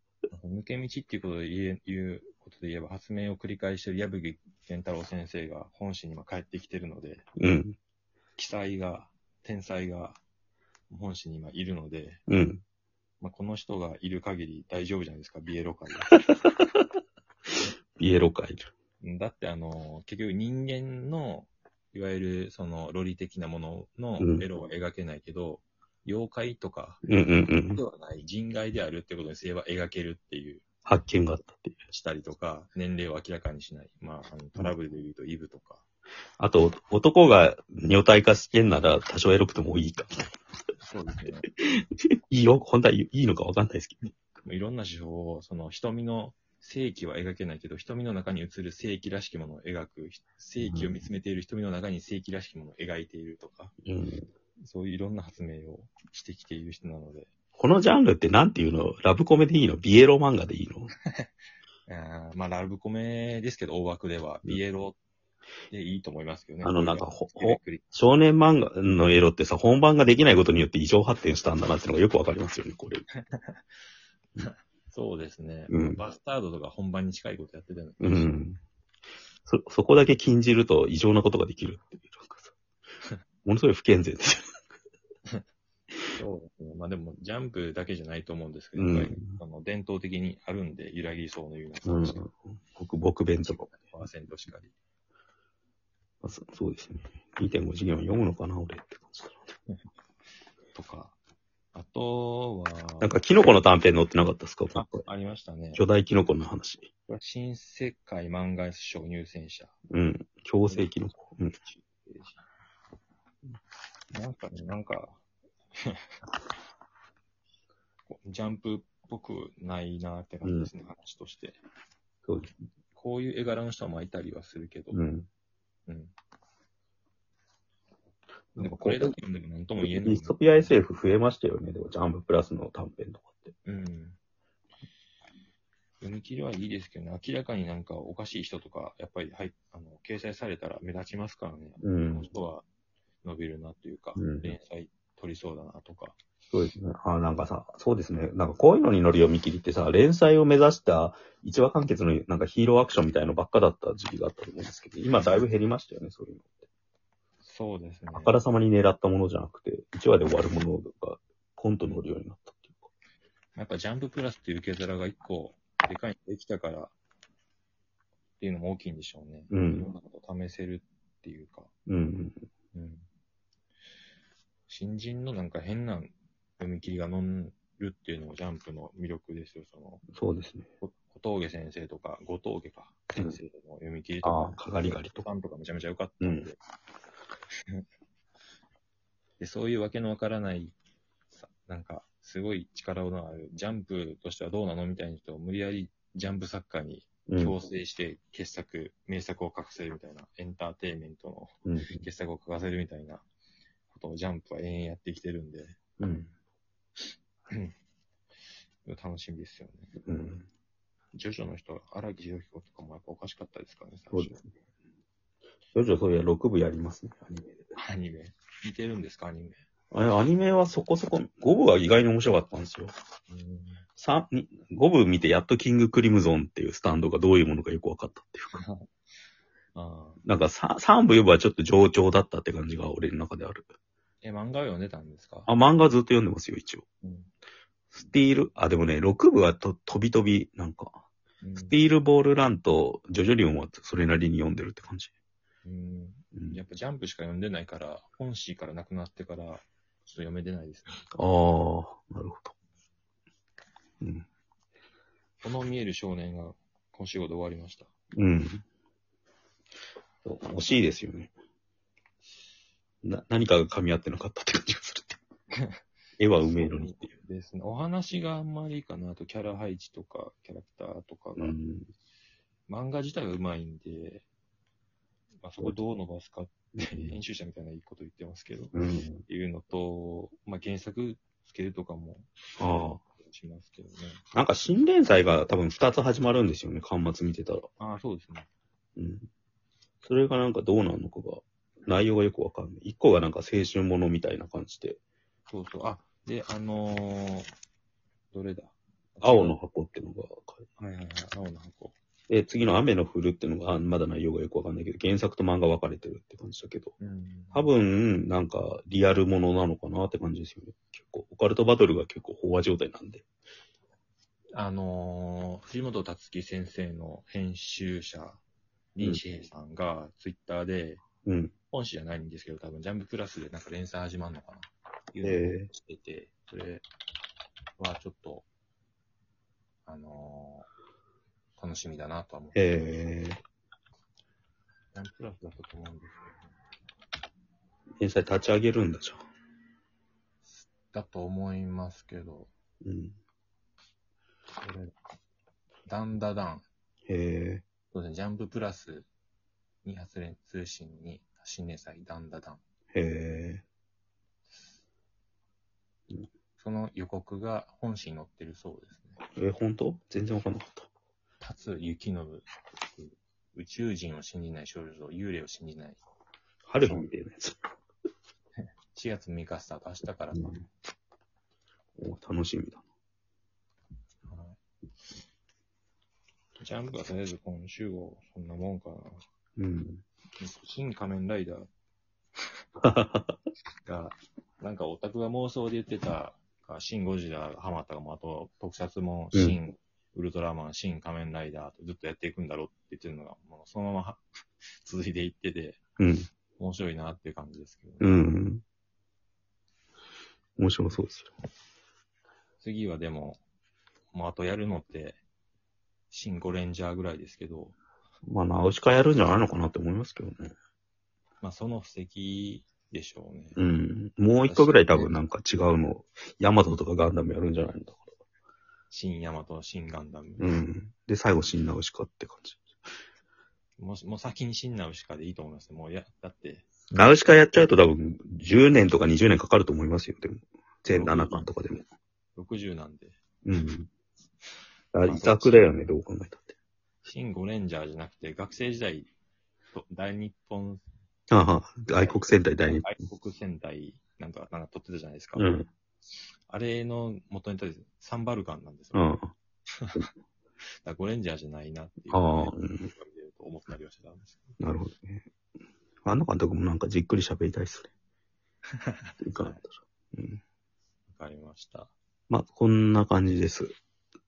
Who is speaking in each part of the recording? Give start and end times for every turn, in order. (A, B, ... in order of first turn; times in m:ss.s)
0:00.3-0:07.2 A
0:07.4-0:07.8 B
0:08.4-0:10.2 A
0:10.9-0:12.2 A
0:12.3-0:12.6 B
0:13.2-0:16.1 A
0:16.1-0:16.6 B
0:17.9-0:18.7 B
0:19.0-0:27.0 A
0:24.2-0:24.4 B
0:27.0-0:27.8 B
0:27.5-0:30.6 A
0:30.8-0:31.8 B
0:31.9-0:35.8 A
0:36.4-0:40.2 B
0:40.8-0:41.5 A
0:41.6-0:44.1 B
0:44.4-0:53.7 A
0:50.6-0:51.0 B
0:53.8-0:54.3 B
0:54.6-0:57.3 A
0:57.6-1:00.9 B
1:01.9-1:05.0 A
1:05.7-1:07.8 A
1:06.6-1:13.0 B
1:13.2-1:13.6 A
1:14.4-1:18.3 A
1:15.7-1:16.0 B
1:18.0-1:18.6 B
1:19.4-1:22.5 B
1:23.4-1:24.5 B
1:26.1-1:32.2 A
1:28.8-1:29.4 B
1:31.8-1:33.7 B
1:33.4-1:34.7 A
1:36.2-1:39.4 B
1:40.7-1:41.2 A
1:41.7-1:43.1 A
1:43.0-1:45.0 B
1:44.7-1:45.8 A
1:45.7-1:46.9 B
1:47.1-1:49.7 A
1:49.9-1:51.6 B
1:51.6-1:52.4 A
1:54.1-1:55.2 A
1:58.1-2:01.6 A
2:00.4-2:00.7 B
2:02.9-2:05.0 A
2:04.9-2:05.3 B
2:05.9-2:06.1 A
2:08.5-2:09.1 B
2:08.6-2:10.7 A
2:09.8-2:13.5 B
2:13.6-2:14.2 A
2:16.0-2:22.7 A
2:21.8-2:22.3 B
2:23.2-2:26.2 A
2:24.2-2:24.5 B
2:26.5-2:36.6 B
2:35.2-2:35.4 A
2:37.4-2:38.4 A
2:38.1-2:42.9 B
2:43.5-2:46.9 A
2:48.4-2:51.7 A
2:49.5-2:49.9 B
2:51.9-2:52.4 B
2:52.7-2:53.0 A
2:54.7-3:00.0 A
3:00.1-3:00.7 B
3:00.8-3:06.6 A
3:04.2-3:05.2 B
3:06.2-3:06.5 B
3:09.4-3:10.8 A
3:11.4-3:23.2 A
3:17.3-3:17.6 B
3:21.6-3:22.0 B
3:23.9-3:26.2 A
3:26.0-3:26.3 B
3:28.8-3:29.9 A
3:30.0-3:30.4 B
3:31.1-3:34.4 A
3:34.1-3:34.4 B
3:35.7-3:37.6 B
3:37.7-3:39.6 A
3:39.9-3:42.9 B
3:43.3-3:43.8 A
3:44.0-3:48.6 B
3:48.6-3:48.8 A
3:49.7-3:50.2 A
3:50.2-3:53.7 B
3:54.2-3:55.5 A
3:55.5-3:56.8 B
3:57.0-3:57.3 A
3:57.9-4:01.0 B
4:01.4-4:01.8 A
4:01.7-4:05.1 B
4:05.6-4:11.0 A
4:06.3-4:06.6 B
4:11.2-4:12.5 B
4:14.0-4:14.2 B
4:15.4-4:17.9 A
4:18.2-4:18.6 B
4:20.2-4:21.3 B
4:23.0-4:25.2 B
4:26.2-4:27.1 B
4:26.4-4:31.6 A
4:31.4-4:31.9 B
4:32.7-4:34.2 A
4:35.4-4:42.3 A
4:36.8-4:37.2 B
4:38.7-4:39.2 B
4:42.6-4:43.0 B
4:43.0-4:44.2 A
4:44.3-4:47.7 B
4:47.8-4:48.5 A
4:49.0-4:49.3 B
4:50.0-4:55.0 B
4:55.5-4:57.5 A
4:58.3-4:59.6 A
4:59.2-5:00.6 B
5:00.8-5:02.0 A
5:02.3-5:06.9 B
5:07.0-5:07.7 A
5:07.5-5:13.2 B
5:14.5-5:18.4 A
5:18.9-5:21.0 A
5:21.2-5:21.5 B
5:21.7-5:26.8 A
5:25.2-5:25.7 B
5:27.8-5:28.5 A
5:29.8-5:30.7 A
5:31.6-5:32.7 A
5:32.6-5:33.4 B
5:34.9-5:36.5 A
5:38.0-5:39.2 B
5:40.4-5:42.5 A
5:42.8-5:43.2 B
5:44.6-5:44.9 A
5:45.8-5:46.7 A
5:47.1-5:47.6 B
5:47.9-5:49.1 A
5:49.8-5:52.6 A
5:52.9-5:53.6 B
5:56.6-5:59.2 A
5:59.4-6:00.9 B
6:01.4-6:06.0 A
6:06.7-6:07.6 B
6:06.8-6:07.1 A
6:08.6-6:10.6 A
6:10.3-6:10.6 B
6:12.0-6:12.8 B
6:14.3-6:14.6 A
6:16.6-6:19.2 A
6:19.6-6:20.0 B
6:20.4-6:21.7 A
6:22.8-6:23.4 B
6:23.8-6:34.2 A
6:29.3-6:29.6 B
6:34.8-6:35.8 A
6:36.0-6:36.3 B
6:36.6-6:38.3 A
6:38.0-6:38.6 B
6:40.6-6:41.3 B
6:42.6-6:43.4 A
6:44.1-6:45.2 A
6:46.1-6:47.8 A
6:48.2-6:50.5 B
6:51.4-6:53.6 A
6:53.6-6:58.1 B
6:54.4-6:55.1 A
6:58.9-7:00.5 A
7:00.4-7:02.7 B
7:03.8-7:06.9 A
7:06.9-7:11.9 B
7:10.9-7:11.5 A
7:12.4-7:13.2 A
7:13.4-7:13.9 B
7:14.9-7:16.5 B
7:15.0-7:15.7 A
7:17.0-7:19.1 A
7:19.7-7:20.8 A
7:21.3-7:22.8 B
7:21.9-7:25.5 A
7:25.4-7:25.7 B
7:26.5-7:29.1 A
7:28.9-7:29.3 B
7:29.7-7:30.1 A
7:30.8-7:34.6 A
7:32.1-7:32.9 B
7:34.6-7:35.2 B
7:36.0-7:37.9 B
7:38.7-7:39.6 A
7:39.2-7:40.4 B
7:41.1-7:41.9 A
7:42.3-7:43.7 B